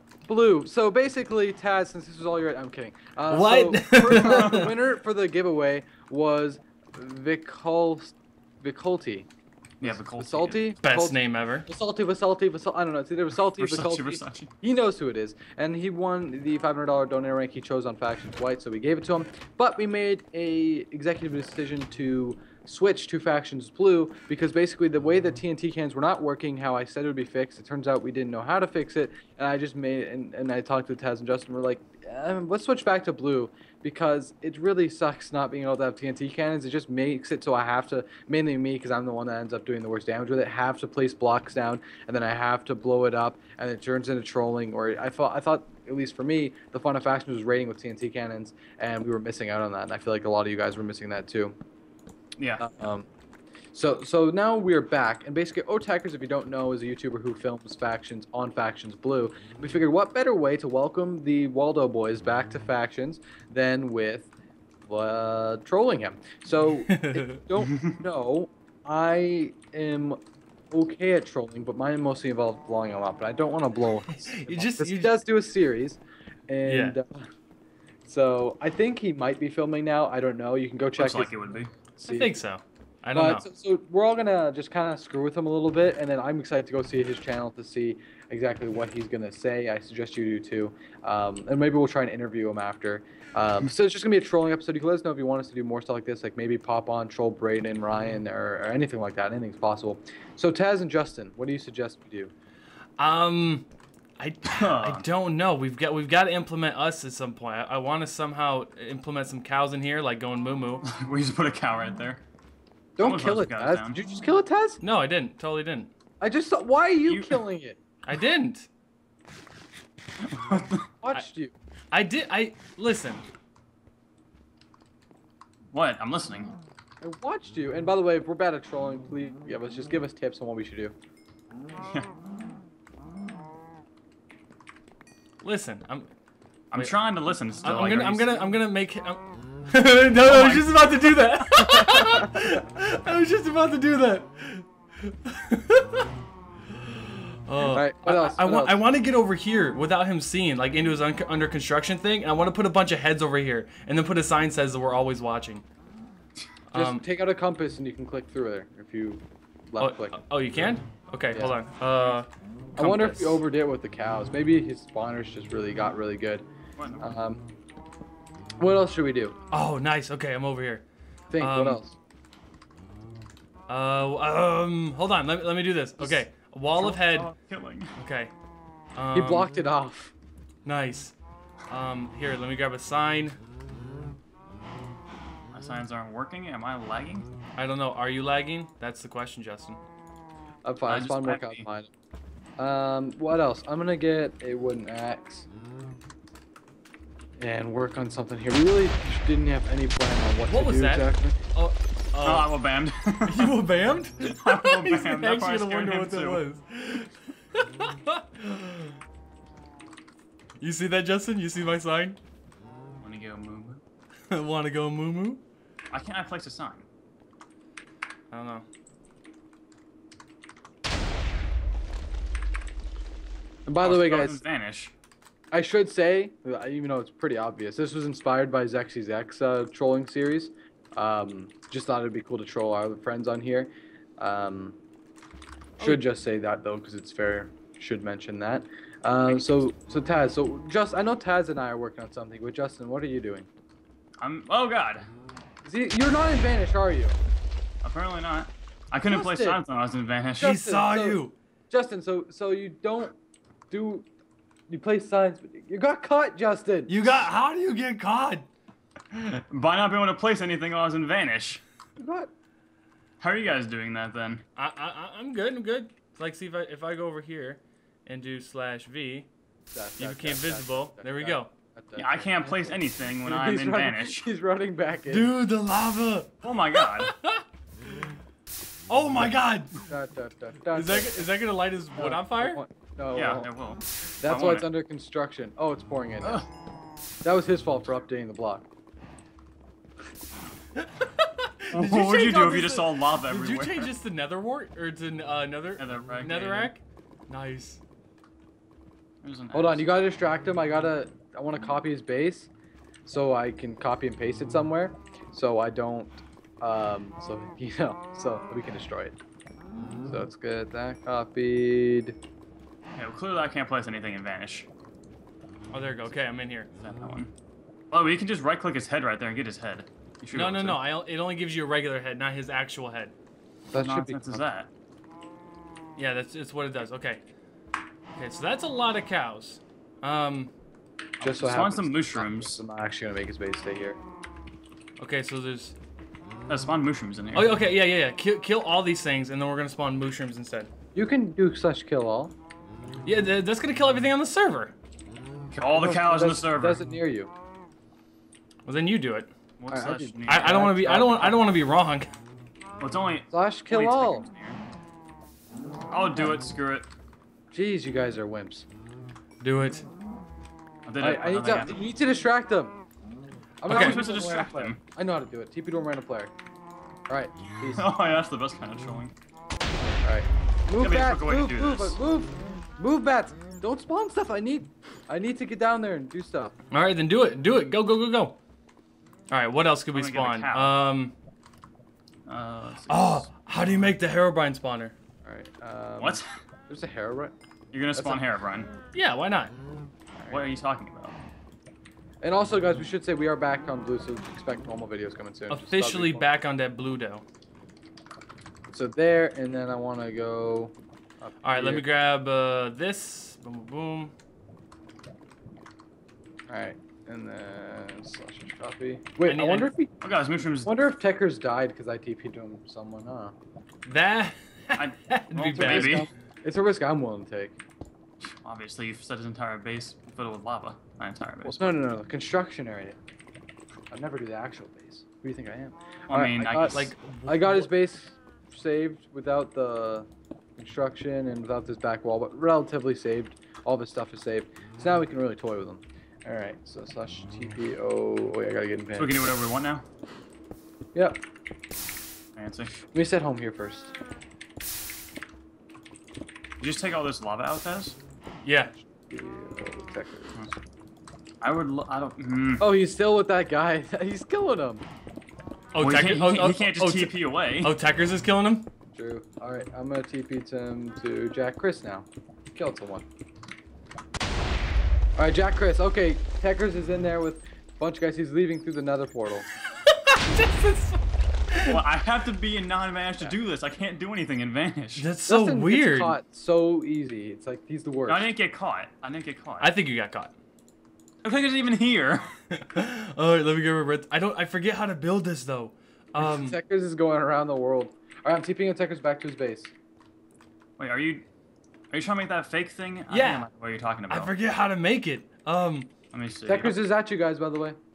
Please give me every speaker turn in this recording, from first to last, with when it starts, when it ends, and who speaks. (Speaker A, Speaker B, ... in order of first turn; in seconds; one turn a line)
Speaker A: 0.3-9.3
Speaker B: 3.3-4.7
Speaker C: 4.1-4.6
Speaker C: 9.8-10.7
Speaker A: 9.8-51.5
Speaker B: 10.8-11.7
Speaker C: 13.5-14.5
Speaker C: 52.4-52.6
Speaker A: 52.6-53.1
Speaker A: 53.7-64.3
Speaker A: 64.8-70.2
Speaker B: 66.9-67.4
Speaker C: 67.6-68.0
Speaker A: 70.7-77.3
Speaker B: 74.1-75.1
Speaker B: 76.6-77.0
Speaker A: 78.1-82.4
Speaker C: 81.0-81.7
Speaker B: 82.1-83.4
Speaker A: 83.1-102.3
Speaker B: 103.0-103.7
Speaker B: 104.2-110.8
Speaker C: 104.5-105.0
Speaker C: 110.8-112.2
Speaker A: 113.0-114.8
Speaker C: 113.0-114.0
Speaker B: 114.8-115.9
Speaker A: 116.2-117.8
Speaker C: 117.0-117.4
Speaker B: 118.0-118.7
Speaker C: 120.3-120.8
Speaker A: 121.0-121.5
Speaker B: 121.9-123.2
Speaker C: 125.7-126.5
Speaker A: 127.0-130.9
Speaker B: 135.4-136.1
Speaker C: 136.7-138.4
Speaker B: 137.6-145.9
Speaker C: 140.2-141.4
Speaker B: 146.9-155.6
Speaker A: 147.7-148.8
Speaker B: 156.7-157.0
Speaker A: 156.7-160.2
Speaker B: 159.8-163.4
Speaker A: 161.3-162.2
Speaker A: 162.8-166.5
Speaker C: 166.8-167.2
Speaker A: 167.0-167.5
Speaker A: 168.6-169.4
Speaker B: 169.5-170.8
Speaker A: 171.3-171.9
Speaker B: 171.4-171.8
Speaker B: 173.7-177.3
Speaker A: 176.0-176.2
Speaker C: 176.8-177.9
Speaker B: 178.0-178.3
Speaker B: 178.9-179.5
Speaker A: 179.1-180.1
Speaker B: 180.6-181.1
Speaker B: 181.7-183.4
Speaker C: 185.5-187.3
Speaker B: 187.6-189.8
Speaker A: 190.6-191.9
Speaker C: 190.9-191.7
Speaker A: 192.6-195.4
Speaker A: 197.4-201.4
Speaker B: 200.4-202.5
Speaker C: 202.2-203.6
Speaker B: 203.2-208.9
Speaker C: 204.2-206.4
Speaker B: 210.6-212.2
Speaker C: 213.0-213.8
Speaker B: 214.3-215.4
Speaker C: 215.9-216.8
Speaker B: 218.3-218.7
Speaker A: 223.7-224.4
Speaker C: 223.8-224.9
Speaker A: 225.5-234.8
Speaker A: 235.8-243.5
Speaker C: 244.2-245.1
Speaker A: 245.6-247.2
Speaker C: 247.8-250.5
Speaker A: 249.0-249.6
Speaker A: 250.4-253.2
Speaker B: 250.4-251.3
Speaker A: 253.7-254.1
Speaker A: 254.7-257.1
Speaker B: 256.9-258.5
Speaker C: 259.1-261.6
Speaker A: 262.0-262.3
Speaker C: 263.2-264.4
Speaker B: 264.6-269.3
Speaker A: 269.7-275.3
Speaker B: 270.0-271.5
Speaker C: 271.9-274.3
Speaker B: 275.1-277.4
Speaker C: 276.4-277.1
Speaker B: 278.9-279.8
Speaker A: 279.9-281.3
Speaker B: 280.7-282.6
Speaker A: 281.9-283.5
Speaker C: 283.1-284.7
Speaker A: 284.2-286.4
Speaker A: 287.2-288.6
Speaker B: 290.8-297.8
Speaker C: 291.7-293.9
Speaker C: 295.8-296.7
Speaker C: 299.2-299.9
Speaker A: 299.5-302.5
Speaker A: 303.1-309.2
Speaker A: 310.0-312.1
Speaker C: 312.9-314.7
Speaker B: 315.7-316.7
Speaker C: 316.8-317.3
Speaker C: 317.9-320.8
Speaker B: 320.3-323.1
Speaker A: 323.7-324.4
Speaker C: 323.7-324.7
Speaker B: 325.9-327.2
Speaker B: 328.1-330.5
Speaker C: 331.2-332.6
Speaker A: 331.2-334.0
Speaker B: 335.0-335.8
Speaker C: 336.5-337.6
Speaker B: 337.3-340.7
Speaker A: 340.9-342.3
Speaker B: 343.0-344.7
Speaker C: 345.5-346.8
Speaker A: 345.6-347.3
Speaker B: 348.6-349.3
Speaker C: 349.6-350.5
Speaker A: 349.7-351.5
Speaker B: 350.3-352.1
Speaker C: 352.8-354.6
Speaker A: 353.3-354.2
Speaker C: 355.9-356.9
Speaker A: 357.5-358.6
Speaker B: 359.4-359.9
Speaker C: 360.9-361.8
Speaker A: 361.0-362.8
Speaker A: 363.6-366.3
Speaker C: 363.7-364.8
Speaker B: 363.7-364.0
Speaker A: 367.1-367.9
Speaker C: 367.8-369.1
Speaker A: 370.0-376.6
Speaker C: 370.8-372.0
Speaker B: 376.7-378.4
Speaker B: 379.3-381.1
Speaker C: 379.9-380.8
Speaker C: 382.3-383.3
Speaker B: 382.9-384.9
Speaker A: 385.2-387.3
Speaker C: 386.0-386.3
Speaker C: 387.7-388.7
Speaker A: 387.9-388.2
Speaker B: 388.9-389.5
Speaker A: 390.2-390.5
Speaker C: 390.3-391.2
Speaker A: 392.2-396.3
Speaker B: 395.5-397.2
Speaker A: 398.7-401.9
Speaker B: 401.4-404.1
Speaker A: 406.5-410.1
Speaker B: 409.2-409.7
Speaker C: 410.0-410.7
Speaker A: 410.6-413.4
Speaker B: 413.8-416.1
Speaker C: 414.7-416.1
Speaker A: 415.5-417.6
Speaker C: 418.2-421.8
Speaker A: 421.4-423.0
Speaker A: 423.9-430.1
Speaker C: 426.1-426.9
Speaker B: 426.7-427.7
Speaker A: 430.6-439.3
Speaker C: 438.9-439.9
Speaker A: 440.9-441.2
Speaker C: 442.4-442.7
Speaker A: 442.9-443.9
Speaker C: 446.6-448.0
Speaker B: 448.4-448.7
Speaker A: 448.6-450.5
Speaker C: 451.4-452.7
Speaker A: 452.6-454.8
Speaker B: 455.7-458.7
Speaker C: 455.8-457.7
Speaker A: 458.9-463.0
Speaker A: 465.2-469.5
Speaker B: 470.1-471.8
Speaker C: 471.6-475.1
Speaker B: 475.0-476.1
Speaker A: 475.3-478.3
Speaker C: 478.1-479.7
Speaker B: 479.6-480.3
Speaker C: 481.2-482.3
Speaker B: 482.5-486.6
Speaker A: 486.2-489.7
Speaker C: 490.8-491.2
Speaker C: 491.9-494.3
Speaker B: 493.1-493.5
Speaker B: 494.1-495.9
Speaker C: 496.1-496.8
Speaker A: 496.5-497.8